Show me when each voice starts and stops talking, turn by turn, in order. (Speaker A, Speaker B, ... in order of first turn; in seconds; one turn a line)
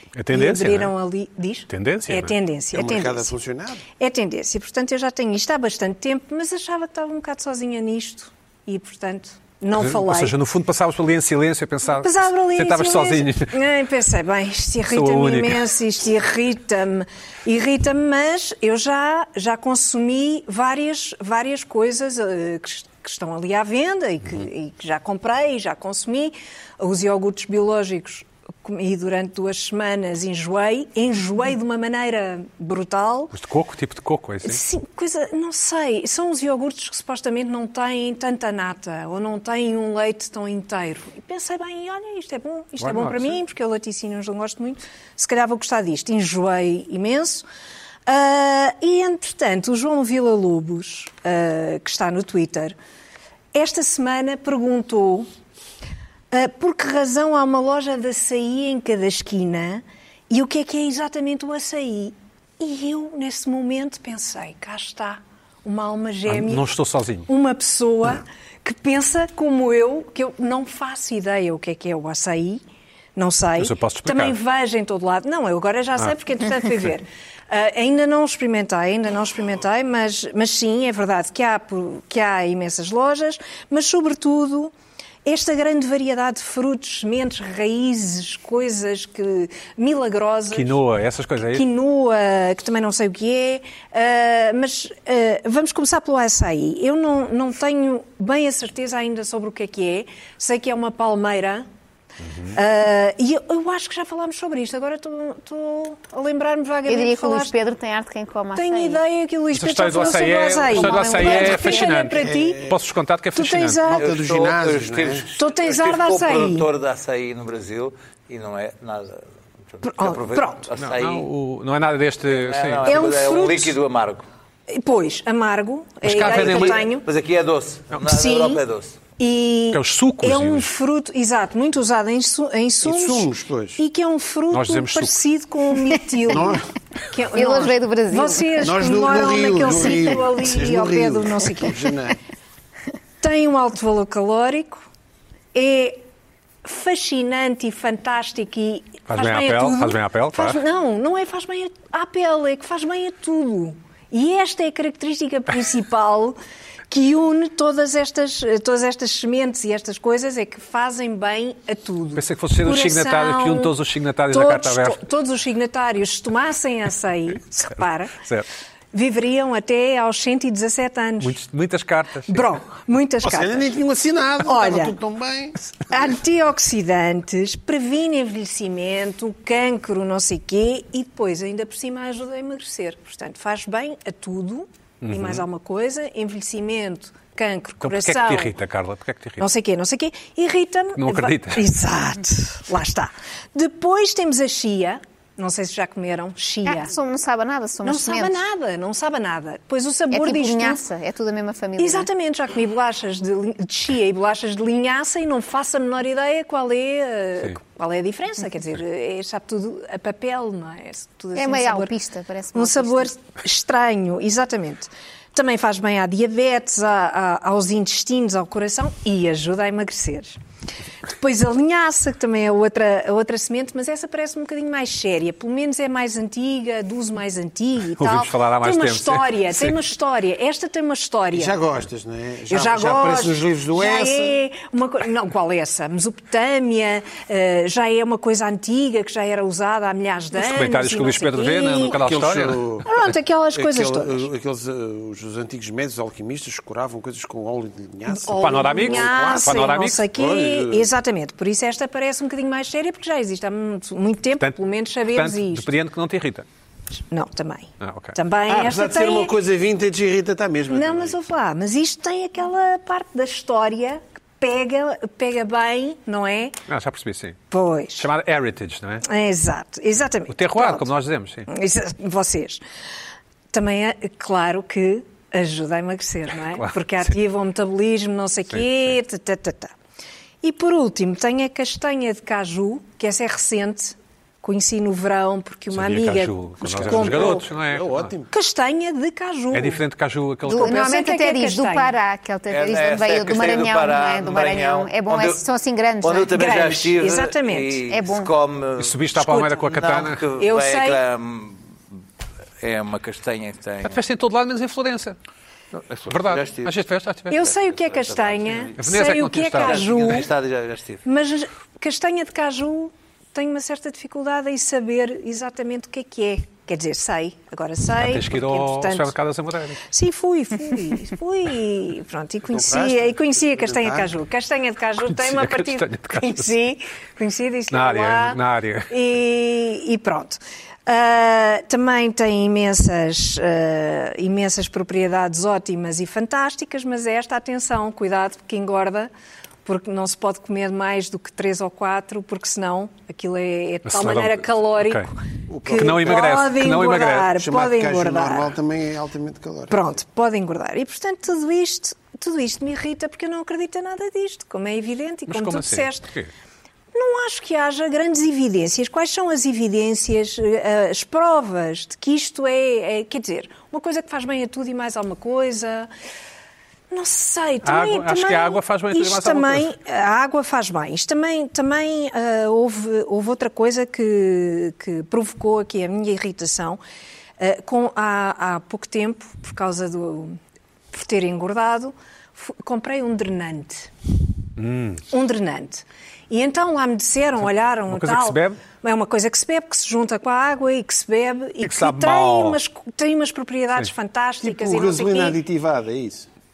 Speaker A: 0.2-1.0
Speaker B: 0.3-3.3
Speaker A: 1.7-2.4
Speaker C: 2.7-3.8
Speaker B: 4.0-10.4
Speaker A: 9.7-13.6
Speaker B: 11.9-33.3
Speaker A: 14.9-15.7
Speaker A: 33.3-34.6
Speaker B: 34.4-47.4
Speaker A: 42.8-43.4
Speaker B: 48.1-52.8
Speaker B: 53.5-55.3
Speaker B: 56.3-66.7
Speaker A: 66.3-67.3
Speaker B: 67.3-72.6
Speaker B: 73.2-84.7
Speaker A: 73.6-74.4
Speaker B: 85.2-90.8
Speaker A: 90.5-91.7
Speaker B: 91.5-101.7
Speaker A: 102.3-102.6
Speaker B: 102.5-107.5
Speaker D: 106.9-109.0
Speaker B: 108.5-112.7
Speaker A: 109.5-113.8
Speaker C: 112.2-112.8
Speaker B: 113.3-114.1
Speaker C: 113.9-115.2
Speaker E: 113.9-121.3
Speaker B: 115.4-116.7
Speaker B: 119.8-120.7
Speaker A: 120.8-123.1
Speaker E: 122.3-124.3
Speaker B: 122.8-123.8
Speaker B: 124.7-127.1
Speaker A: 126.0-126.8
Speaker E: 126.1-129.0
Speaker B: 128.0-128.6
Speaker B: 129.2-141.9
Speaker A: 129.7-130.7
Speaker C: 132.8-133.8
Speaker A: 134.5-135.2
Speaker C: 136.3-136.7
Speaker D: 137.3-138.8
Speaker C: 138.6-142.2
Speaker B: 143.2-144.8
Speaker B: 145.5-146.0
Speaker B: 146.6-156.4
Speaker A: 149.1-150.6
Speaker B: 156.9-163.8
Speaker A: 162.2-165.0
Speaker B: 164.3-168.2
Speaker A: 167.8-168.5
Speaker B: 168.9-171.4
Speaker A: 171.2-172.5
Speaker B: 172.3-173.7
Speaker C: 173.2-175.6
Speaker B: 174.4-175.0
Speaker B: 175.9-188.6
Speaker A: 185.0-185.4
Speaker A: 187.8-189.5
Speaker B: 189.4-196.9
Speaker A: 191.0-191.7
Speaker D: 196.7-198.4
Speaker B: 197.8-200.8
Speaker D: 200.1-202.1
Speaker B: 201.8-211.9
Speaker D: 211.3-213.1
Speaker B: 212.5-220.4
Speaker B: 221.1-231.6
Speaker A: 228.0-229.8
Speaker C: 231.3-234.4
Speaker B: 232.5-242.0
Speaker A: 240.3-242.7
Speaker C: 241.9-242.9
Speaker B: 242.8-244.3
Speaker C: 243.5-250.9
Speaker B: 248.1-255.7
Speaker A: 248.3-250.1
Speaker A: 254.4-256.5
Speaker B: 257.0-259.3
Speaker A: 257.8-258.2
Speaker C: 258.5-261.2
Speaker B: 260.7-266.6
Speaker A: 266.7-267.4
Speaker B: 267.5-268.1
Speaker A: 268.0-269.1
Speaker B: 269.0-270.9
Speaker A: 270.3-271.5
Speaker B: 271.5-272.6
Speaker B: 273.5-279.7
Speaker A: 278.5-279.0
Speaker B: 280.4-287.5
Speaker A: 285.7-288.1
Speaker C: 286.7-288.3
Speaker B: 288.3-289.8
Speaker A: 289.5-290.8
Speaker B: 290.5-291.9
Speaker D: 290.5-296.6
Speaker E: 292.5-295.4
Speaker E: 296.0-299.1
Speaker B: 296.3-297.9
Speaker D: 297.9-298.3
Speaker A: 298.8-300.2
Speaker B: 299.1-299.8
Speaker E: 299.6-301.6
Speaker B: 300.4-301.0
Speaker E: 302.6-304.0
Speaker A: 303.8-305.2
Speaker E: 305.7-306.8
Speaker A: 306.1-307.5
Speaker B: 307.3-310.3
Speaker E: 307.4-308.8
Speaker A: 308.8-310.2
Speaker E: 309.6-311.0
Speaker B: 311.1-319.1
Speaker A: 317.9-319.8
Speaker B: 319.8-339.1
Speaker C: 322.5-324.1
Speaker A: 325.0-326.5
Speaker A: 327.7-328.9
Speaker B: 339.6-348.5
Speaker A: 343.9-345.1
Speaker C: 345.5-346.3
Speaker A: 345.7-347.3
Speaker C: 347.4-350.0
Speaker B: 349.7-356.1
Speaker A: 355.3-356.3
Speaker B: 356.9-365.9
Speaker B: 366.9-376.8
Speaker A: 367.6-369.7
Speaker B: 377.4-380.4
Speaker B: 380.9-383.9
Speaker A: 384.6-385.0
Speaker B: 385.1-395.4
Speaker A: 387.9-388.6
Speaker A: 391.6-392.6
Speaker C: 394.4-396.3